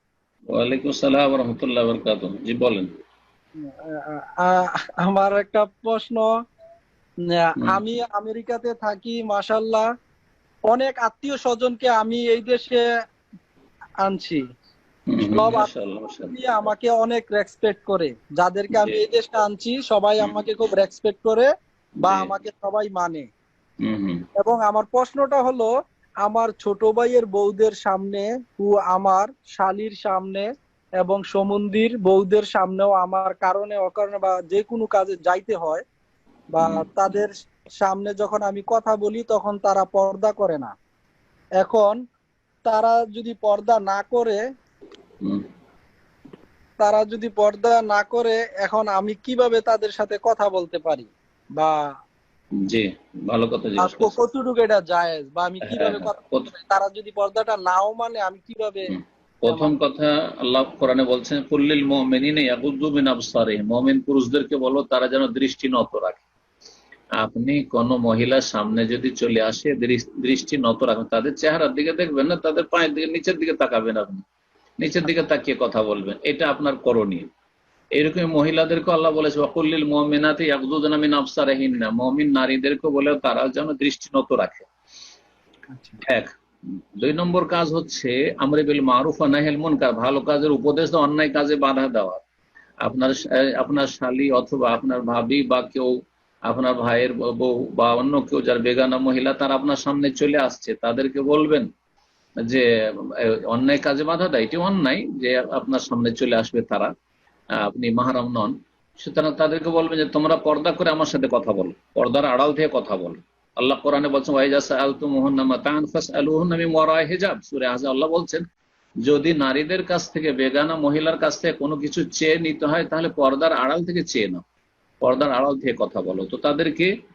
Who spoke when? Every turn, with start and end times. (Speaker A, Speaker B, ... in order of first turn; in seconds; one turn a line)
Speaker A: 0.5-2.9
Speaker B: 3.7-6.3
Speaker B: 7.3-9.9
Speaker B: 10.7-12.8
Speaker B: 14.0-14.4
Speaker A: 15.1-16.7
Speaker B: 15.2-15.7
Speaker B: 16.3-21.5
Speaker A: 18.7-19.0
Speaker A: 22.0-22.3
Speaker B: 22.0-23.2
Speaker A: 23.8-24.2
Speaker B: 24.4-25.7
Speaker B: 26.2-30.4
Speaker B: 31.0-35.8
Speaker B: 36.5-40.7
Speaker A: 36.6-36.9
Speaker B: 41.6-42.0
Speaker B: 42.6-44.4
Speaker B: 46.8-51.7
Speaker A: 52.6-54.2
Speaker B: 53.8-58.9
Speaker A: 55.6-56.5
Speaker A: 58.9-66.2
Speaker B: 59.5-59.7
Speaker A: 67.2-74.2
Speaker A: 74.8-77.3
Speaker A: 78.0-84.7
Speaker B: 85.7-86.0
Speaker A: 86.0-86.3
Speaker A: 87.0-92.2
Speaker A: 92.8-95.9
Speaker A: 96.5-101.7
Speaker A: 102.4-106.9
Speaker A: 107.5-118.4
Speaker A: 119.0-124.4
Speaker A: 125.0-126.9